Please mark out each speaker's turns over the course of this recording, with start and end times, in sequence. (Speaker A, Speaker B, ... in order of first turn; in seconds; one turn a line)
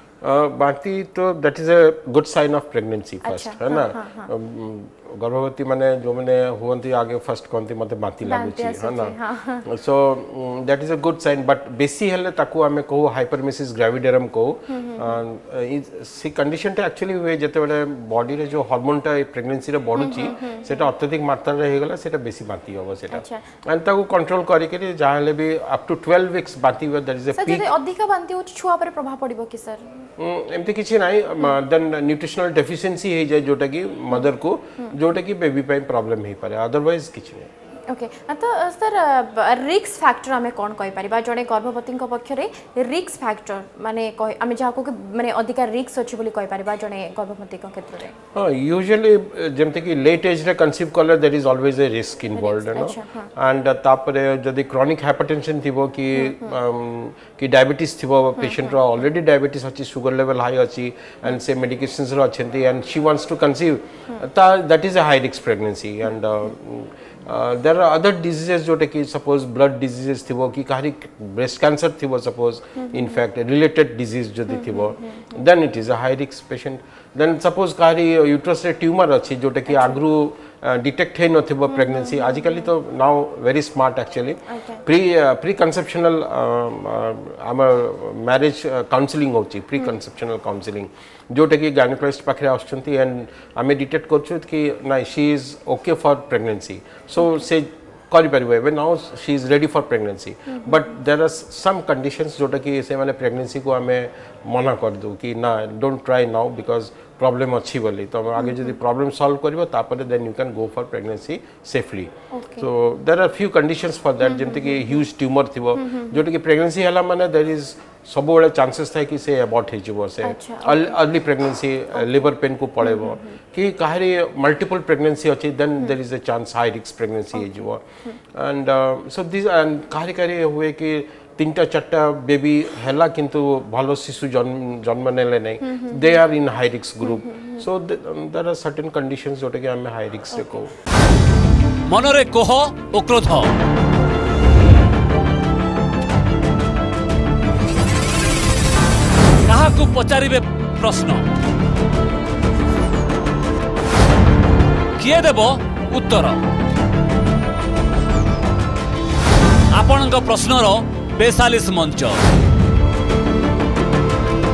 Speaker A: 0.2-27.7
Speaker B: 3.2-4.3
Speaker B: 8.2-9.7
Speaker B: 14.7-15.2
Speaker B: 20.0-20.9
Speaker B: 23.1-23.5
Speaker B: 27.3-29.9
Speaker A: 30.2-37.5
Speaker B: 37.9-48.1
Speaker A: 48.4-140.7
Speaker B: 52.4-53.3
Speaker B: 56.2-56.5
Speaker B: 58.4-58.7
Speaker B: 72.8-73.2
Speaker B: 74.5-75.3
Speaker B: 79.7-80.0
Speaker B: 81.7-82.7
Speaker B: 84.5-84.8
Speaker B: 108.4-108.8
Speaker B: 112.3-112.7
Speaker B: 114.2-115.0
Speaker B: 115.8-116.2
Speaker B: 120.2-121.0
Speaker B: 122.0-122.3
Speaker B: 122.8-123.3
Speaker B: 135.7-136.2
Speaker B: 137.0-137.6
Speaker C: 141.9-143.5
Speaker C: 149.5-151.2
Speaker C: 155.0-156.4
Speaker C: 159.7-162.2